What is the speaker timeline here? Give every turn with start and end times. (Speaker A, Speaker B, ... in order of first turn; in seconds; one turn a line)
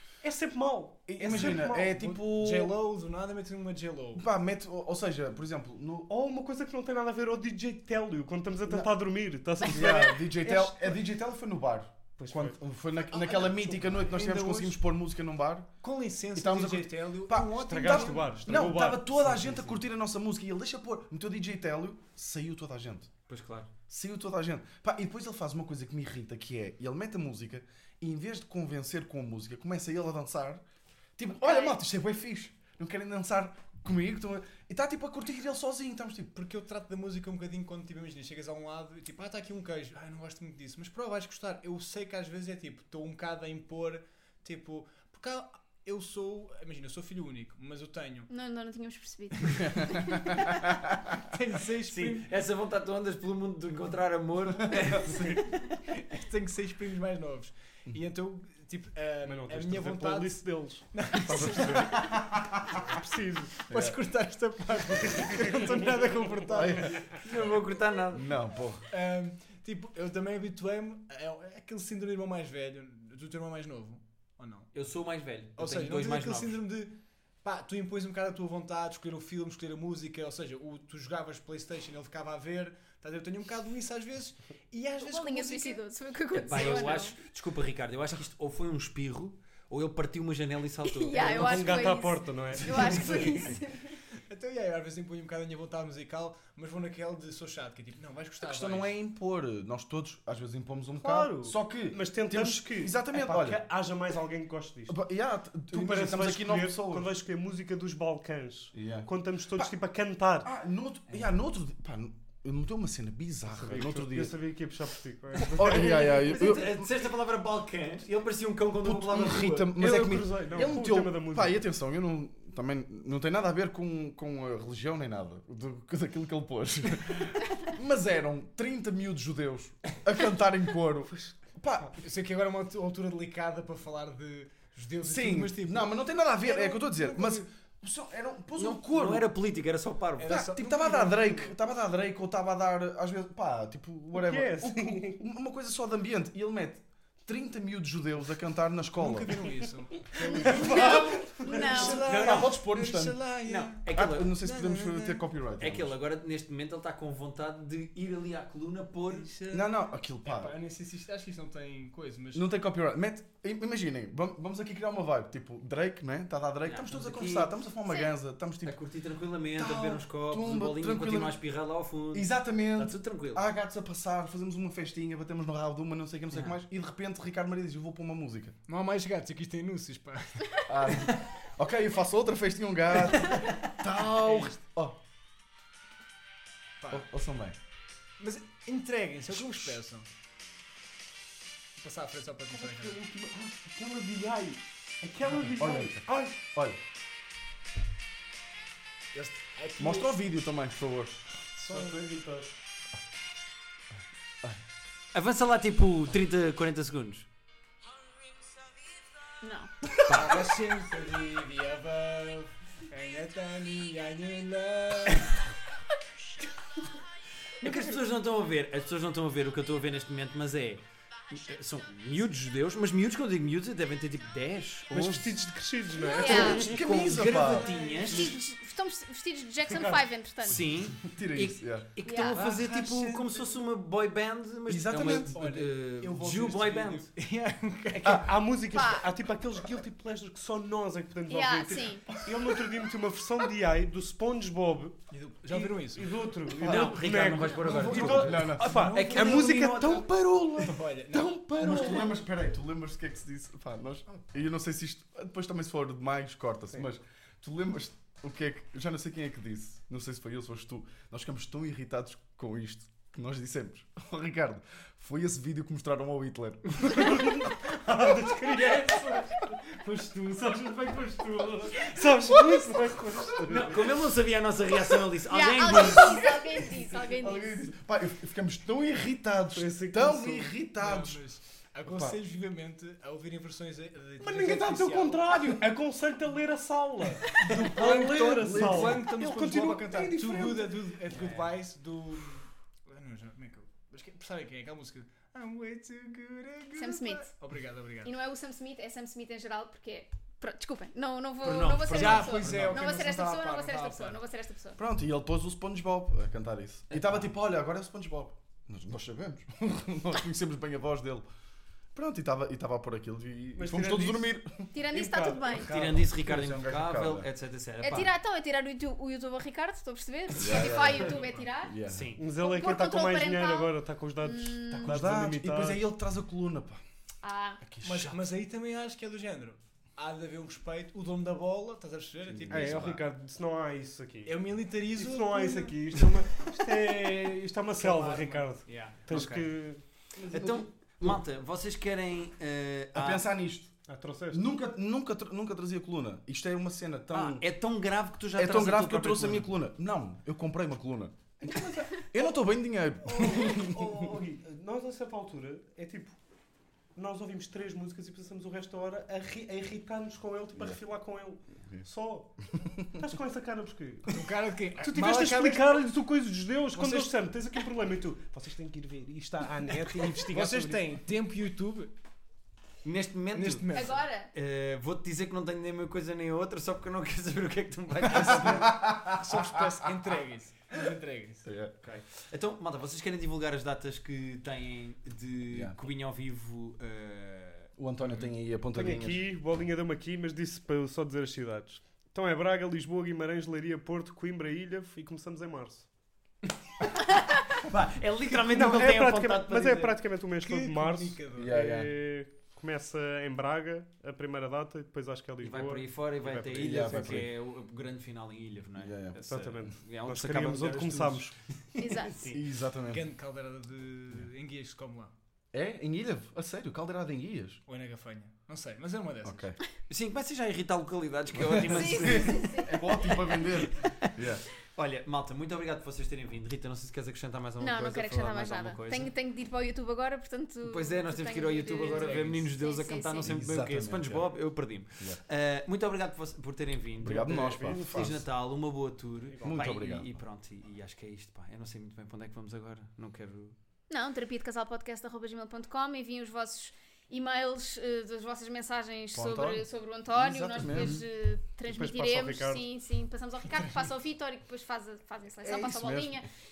Speaker A: 0.2-1.9
Speaker B: 1.1-2.7
Speaker C: 1.2-4.2
Speaker B: 4.2-6.1
Speaker A: 6.1-10.5
Speaker B: 8.7-8.9
Speaker B: 9.7-15.7
Speaker C: 9.8-11.0
Speaker A: 12.2-12.6
Speaker A: 13.4-14.1
Speaker C: 14.0-14.8
Speaker C: 15.8-18.7
Speaker B: 16.4-23.1
Speaker A: 17.6-19.6
Speaker D: 23.3-23.7
Speaker B: 23.9-30.6
Speaker B: 31.2-36.3
Speaker E: 31.3-31.8
Speaker C: 36.3-48.3
Speaker E: 48.3-50.5
Speaker B: 49.7-50.5
Speaker C: 51.1-52.3
Speaker D: 51.9-56.0
Speaker C: 54.7-62.2
Speaker A: 59.2-62.2
Speaker A: 62.8-63.6
Speaker C: 63.7-67.0
Speaker B: 63.7-64.0
Speaker A: 65.0-67.2
Speaker B: 66.5-67.1
Speaker D: 67.2-68.3
Speaker B: 68.1-68.8
Speaker C: 68.9-74.7
Speaker D: 74.7-76.6
Speaker C: 75.6-76.9
Speaker C: 77.4-85.8
Speaker E: 85.0-87.2
Speaker D: 86.4-92.0
Speaker C: 86.6-87.0
Speaker E: 90.8-94.0
Speaker A: 91.1-93.4
Speaker C: 92.9-93.5
Speaker C: 94.3-98.9
Speaker B: 98.4-103.6
Speaker A: 101.0-105.0
Speaker B: 104.9-107.1
Speaker A: 105.7-110.5
Speaker B: 108.7-109.7
Speaker B: 110.4-114.3
Speaker A: 113.5-116.0
Speaker D: 115.4-119.8
Speaker B: 115.5-116.9
Speaker B: 118.8-131.9
Speaker A: 119.8-121.6
Speaker A: 131.1-131.9
Speaker C: 132.0-137.5
Speaker B: 135.0-139.3
Speaker D: 138.6-140.4
Speaker C: 140.2-141.6
Speaker B: 140.3-149.4
Speaker A: 144.2-145.2
Speaker C: 149.0-155.2
Speaker A: 150.3-151.8
Speaker B: 150.4-153.2
Speaker E: 150.6-152.1
Speaker D: 153.5-154.4
Speaker B: 153.9-155.9
Speaker D: 155.6-159.3
Speaker C: 159.1-162.5
Speaker B: 159.5-160.6
Speaker B: 162.3-168.8
Speaker D: 166.7-167.5
Speaker D: 168.7-173.4
Speaker B: 169.5-171.4
Speaker B: 172.1-178.6
Speaker C: 178.7-180.7
Speaker B: 180.7-185.0
Speaker C: 184.0-184.6
Speaker C: 186.8-187.1
Speaker B: 186.9-187.6
Speaker C: 188.2-190.1
Speaker C: 191.8-193.0
Speaker A: 192.5-196.4
Speaker B: 195.6-196.8
Speaker C: 199.1-200.1
Speaker B: 199.8-201.2
Speaker C: 201.6-202.2
Speaker A: 201.7-202.5
Speaker D: 205.1-207.3
Speaker E: 209.4-209.7
Speaker D: 210.1-210.5
Speaker C: 210.1-215.3
Speaker D: 217.6-225.4
Speaker A: 224.9-226.9
Speaker E: 226.1-226.8
Speaker B: 226.2-228.2
Speaker D: 226.3-228.4
Speaker C: 226.9-228.3
Speaker E: 227.9-230.6
Speaker A: 229.7-230.1
Speaker D: 230.4-237.1
Speaker B: 231.0-231.9
Speaker E: 232.0-232.4
Speaker C: 232.3-233.5
Speaker B: 234.7-235.4
Speaker C: 235.0-238.3
Speaker A: 238.1-252.1
Speaker E: 238.7-239.1
Speaker E: 241.3-242.1
Speaker C: 245.1-246.3
Speaker D: 246.6-250.0
Speaker B: 246.6-246.9
Speaker C: 247.5-252.1
Speaker B: 247.9-248.9
Speaker B: 251.6-267.5
Speaker A: 266.8-274.0
Speaker D: 273.4-276.3
Speaker E: 275.3-277.6
Speaker B: 276.5-281.2
Speaker A: 279.6-280.6
Speaker C: 280.7-285.4
Speaker B: 281.9-282.1
Speaker A: 284.2-291.1
Speaker B: 285.3-285.6
Speaker C: 287.3-298.1
Speaker B: 287.5-289.0
Speaker E: 296.8-297.3
Speaker E: 298.0-304.8
Speaker D: 301.4-302.8
Speaker C: 301.9-304.2
Speaker B: 304.8-311.2
Speaker D: 306.9-307.3
Speaker B: 311.9-314.7
Speaker A: 313.6-315.7
Speaker E: 314.7-315.7
Speaker B: 315.4-317.3
Speaker D: 315.7-318.1
Speaker E: 317.8-321.7
Speaker B: 320.4-322.1
Speaker D: 321.9-322.2
Speaker A: 322.2-325.8
Speaker E: 322.4-325.1
Speaker B: 324.8-326.8
Speaker E: 327.2-327.6
Speaker B: 327.6-328.1
Speaker C: 327.8-332.9
Speaker B: 332.3-333.0
Speaker A: 332.5-339.8
Speaker C: 334.2-336.0
Speaker C: 337.8-338.6
Speaker D: 338.7-339.5
Speaker B: 340.2-341.2
Speaker D: 340.3-343.2
Speaker B: 342.9-343.7
Speaker A: 343.9-344.4
Speaker B: 344.3-347.4
Speaker D: 347.1-349.6
Speaker B: 348.4-354.2
Speaker A: 353.1-356.2
Speaker A: 356.9-370.9
Speaker C: 364.1-365.9
Speaker C: 366.7-367.1
Speaker C: 370.2-371.9
Speaker D: 372.8-378.7
Speaker C: 373.3-374.0
Speaker E: 373.7-374.3
Speaker B: 378.1-379.8
Speaker C: 379.0-381.5
Speaker B: 381.4-381.7
Speaker D: 381.8-387.7
Speaker B: 387.8-389.2
Speaker A: 388.7-395.9
Speaker D: 397.0-400.0
Speaker A: 398.3-407.3
Speaker C: 400.4-401.6
Speaker B: 401.3-401.9
Speaker D: 405.4-412.4
Speaker B: 406.6-407.3
Speaker B: 408.8-409.2
Speaker A: 409.2-411.3
Speaker E: 411.8-412.1
Speaker B: 412.3-413.0
Speaker C: 412.9-415.1
Speaker B: 415.5-417.6
Speaker C: 417.7-419.5
Speaker B: 419.2-419.6
Speaker D: 419.9-422.8
Speaker B: 421.4-424.4
Speaker E: 421.7-423.4
Speaker D: 423.4-424.1
Speaker D: 424.8-429.1
Speaker E: 427.6-433.3
Speaker D: 430.6-443.6
Speaker B: 433.2-434.3
Speaker B: 437.0-438.2
Speaker A: 437.1-438.2
Speaker A: 439.3-439.7
Speaker B: 439.4-440.2
Speaker E: 443.9-456.3
Speaker B: 449.1-451.0
Speaker D: 450.7-451.0
Speaker A: 451.7-452.6
Speaker B: 455.4-456.2